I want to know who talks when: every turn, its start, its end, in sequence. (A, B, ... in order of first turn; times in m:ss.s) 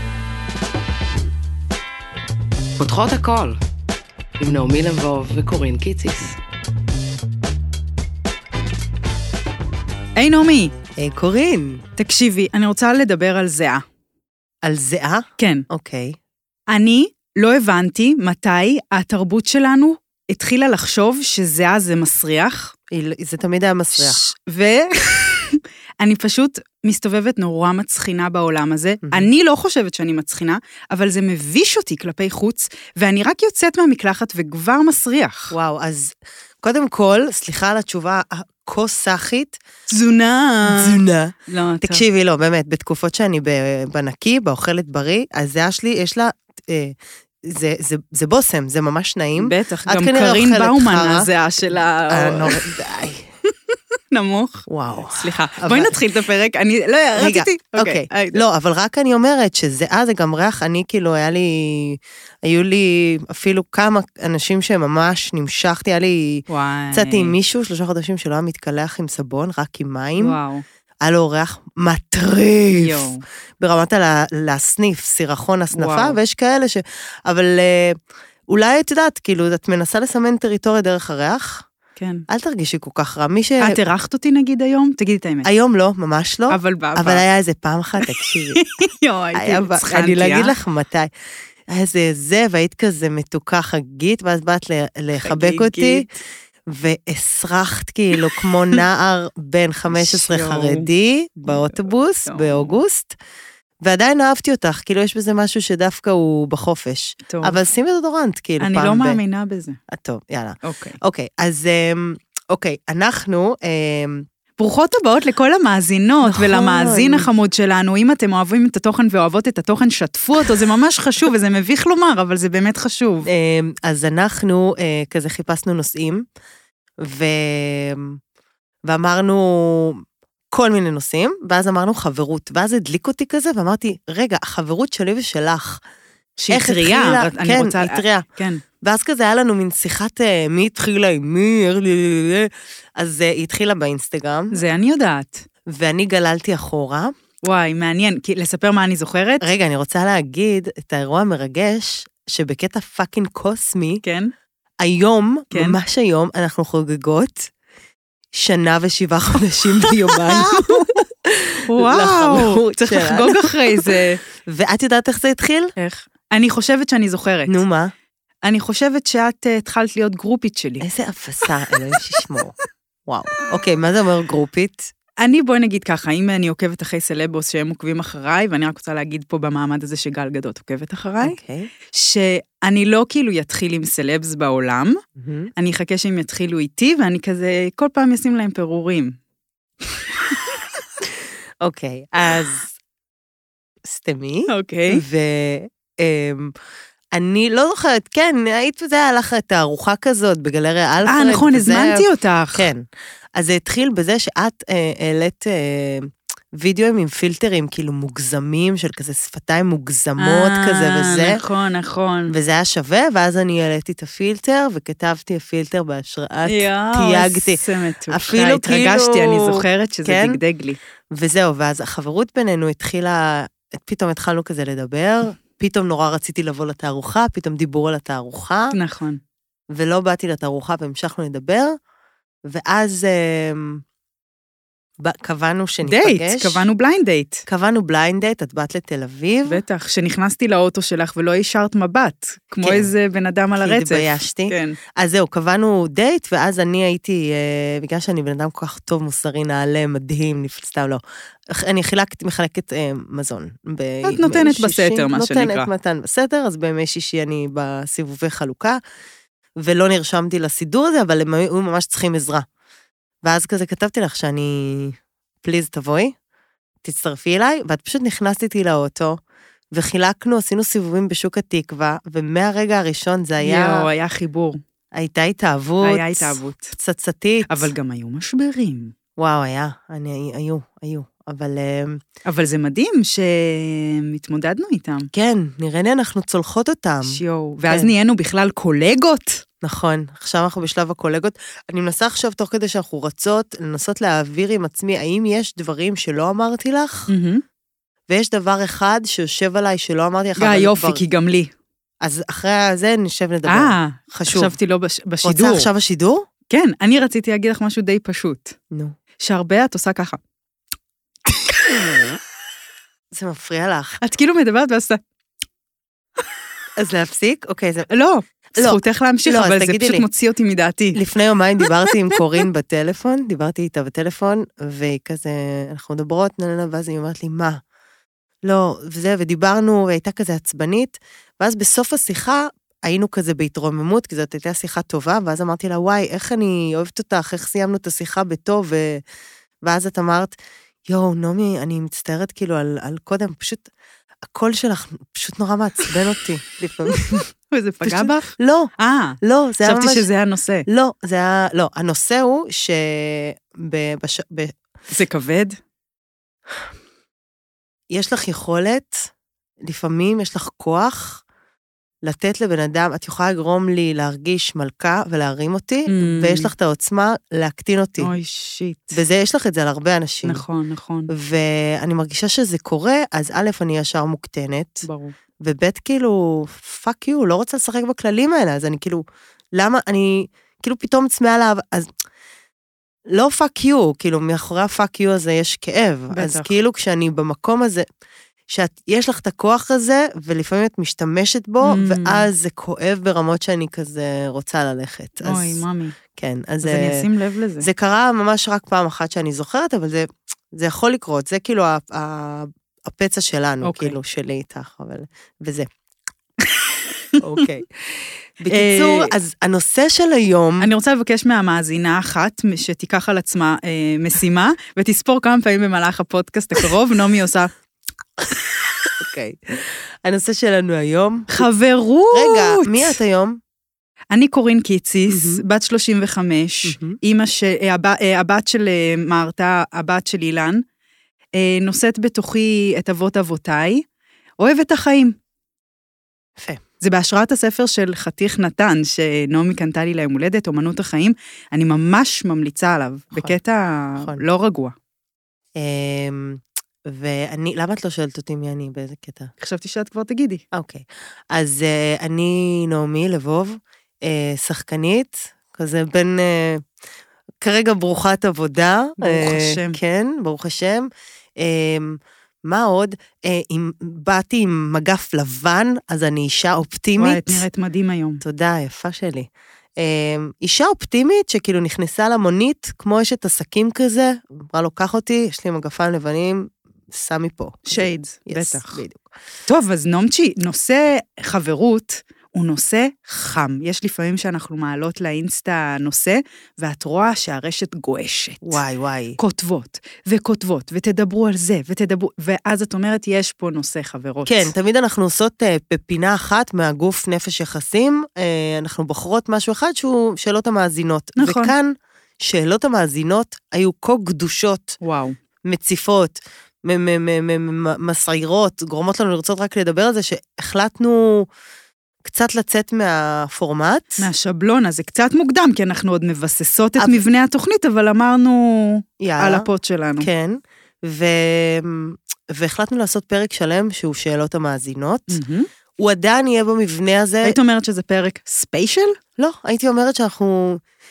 0:02.8-0:03.6 A
0:04.4-0:06.4 A
0:10.2-0:10.7 B
0:11.0-0:11.8 C
0:12.0-0:13.8 B
0:14.6-0:16.2 C
0:15.4-0:15.6 B
0:16.7-0:22.7 B
0:22.9-0:24.2 C
0:23.9-0:35.5 B
0:35.5-0:39.6 C
0:39.9-0:42.0 B
0:40.6-0:51.3 C
0:49.4-0:52.7 B
0:52.1-0:53.3 C
0:53.5-0:54.6 B
0:54.7-0:56.0 C
0:55.2-0:58.4 B
0:57.2-1:10.4 C
1:06.5-1:07.3 B
1:10.2-1:10.6 B
1:11.0-1:21.6 C
1:12.8-1:13.2 B
1:15.7-1:16.2 B
1:22.0-1:22.2 B
1:22.3-1:23.8 C
1:23.6-1:25.5 B
1:25.4-1:28.6 C
1:26.5-1:27.2 B
1:28.6-1:30.5 B
1:29.3-1:31.1 C
1:31.7-1:36.1 C
1:35.2-1:36.1 B
1:36.7-1:43.2 C
1:39.9-1:40.9 B
1:41.5-1:42.8 B
1:43.8-1:49.2 C
1:47.3-1:47.6 B
1:48.6-1:49.8 B
1:49.9-1:54.2 C
1:50.6-1:51.0 B
1:54.6-2:03.3 B
1:56.2-1:57.3 C
2:03.2-2:06.2 C
2:07.0-2:08.2 C
2:08.8-2:15.8 C
2:16.4-2:18.6 B
2:16.5-2:18.2 C
2:18.8-2:24.6 C
2:24.5-2:25.4 B
2:25.7-2:27.1 C
2:27.4-2:29.4 B
2:29.4-2:34.0 C
2:34.0-2:34.3 B
2:34.8-2:37.5 C
2:35.5-2:35.8 B
2:38.3-2:45.7 C
2:39.9-2:41.0 B
2:41.7-2:44.2 B
2:45.8-2:47.6 B
2:47.5-2:47.9 C
2:48.4-2:50.9 B
2:50.8-2:52.5 C
2:53.1-2:54.9 C
2:55.2-3:01.4 B
3:01.2-3:01.7 C
3:01.9-3:05.0 B
3:05.2-3:05.5 C
3:05.6-3:09.2 B
3:11.6-3:12.7 C
3:13.8-3:16.5 C
3:14.5-3:15.0 B
3:17.1-3:22.8 C
3:21.0-3:22.7 B
3:23.3-3:31.4 C
3:30.2-3:32.3 B
3:32.3-3:40.4 C
3:36.4-3:40.8 B
3:41.1-3:48.7 C
3:48.7-3:49.2 B
3:49.7-3:51.8 C
3:52.4-3:53.8 C
3:55.0-3:56.7 C
3:55.8-3:57.4 B
3:57.5-3:59.6 C
3:59.4-4:04.8 B
4:02.6-4:02.9 C
4:03.6-4:18.8 C
4:14.0-4:15.7 B
4:19.6-4:22.4 C
4:23.2-4:26.1 C
4:26.8-4:29.2 C
4:29.7-4:33.9 C
4:33.4-4:34.6 B
4:34.9-4:37.7 C
4:35.8-4:36.7 B
4:37.5-4:38.9 B
4:39.2-4:42.0 C
4:42.2-4:45.1 B
4:45.1-4:47.9 C
4:47.0-4:49.4 B
4:49.6-4:57.1 C
4:57.1-4:57.4 B
4:58.1-5:01.0 C
5:00.4-5:01.5 B
5:02.0-5:04.6 C
5:03.5-5:05.7 B
5:05.2-5:06.2 C
5:06.5-5:08.6 B
5:09.2-5:10.2 B
5:13.1-5:14.0 C
5:14.0-5:15.0 B
5:16.8-5:17.9 C
5:17.9-5:21.0 B
5:18.6-5:20.0 C
5:20.9-5:27.6 C
5:28.4-5:39.0 C
5:39.6-5:40.4 C
5:40.9-5:43.6 C
5:44.3-5:47.2 C
5:47.5-5:50.7 B
5:47.8-5:50.1 C
5:50.7-5:54.6 C
5:54.9-5:55.6 B
5:57.9-5:59.1 C
5:59.6-6:01.2 C
6:02.0-6:08.1 C
6:05.9-6:06.5 B
6:08.0-6:09.0 B
6:08.9-6:10.4 C
6:10.2-6:11.1 B
6:11.1-6:14.8 C
6:14.8-6:15.1 B
6:15.4-6:21.9 C
6:23.1-6:27.8 C
6:26.1-6:26.5 B
6:28.5-6:35.6 C
6:31.6-6:32.3 B
6:35.2-6:36.0 B
6:36.1-6:37.1 C
6:36.6-6:37.7 B
6:37.6-6:45.7 C
6:43.6-6:44.0 B
6:47.2-6:50.7 C
6:48.5-6:49.1 B
6:50.6-6:57.5 B
6:58.9-7:01.4 C
7:01.3-7:03.0 B
7:02.1-7:03.4 C
7:04.1-7:10.6 B
7:05.1-7:05.4 C
7:06.6-7:07.0 C
7:11.4-7:13.8 B
7:14.4-7:15.1 B
7:16.4-7:16.6 C
7:16.8-7:24.7 B
7:25.6-7:29.3 C
7:29.4-7:30.4 B
7:30.5-7:36.6 C
7:37.4-7:47.4 C
7:39.0-7:39.8 B
7:47.0-7:48.2 B
7:48.2-7:59.0 C
7:57.7-7:58.8 B
7:59.4-8:08.6 B
8:08.4-8:09.2 C
8:09.2-8:14.5 B
8:14.2-8:24.8 C
8:21.2-8:21.5 B
8:24.8-8:25.2 B
8:25.4-8:31.3 C
8:32.0-8:34.0 C
8:34.0-8:40.1 B
8:36.8-8:37.0 C
8:39.0-8:39.5 C
8:40.0-8:45.2 C
8:45.1-8:45.5 B
8:45.8-8:47.4 C
8:47.2-8:49.0 B
8:49.2-8:50.6 C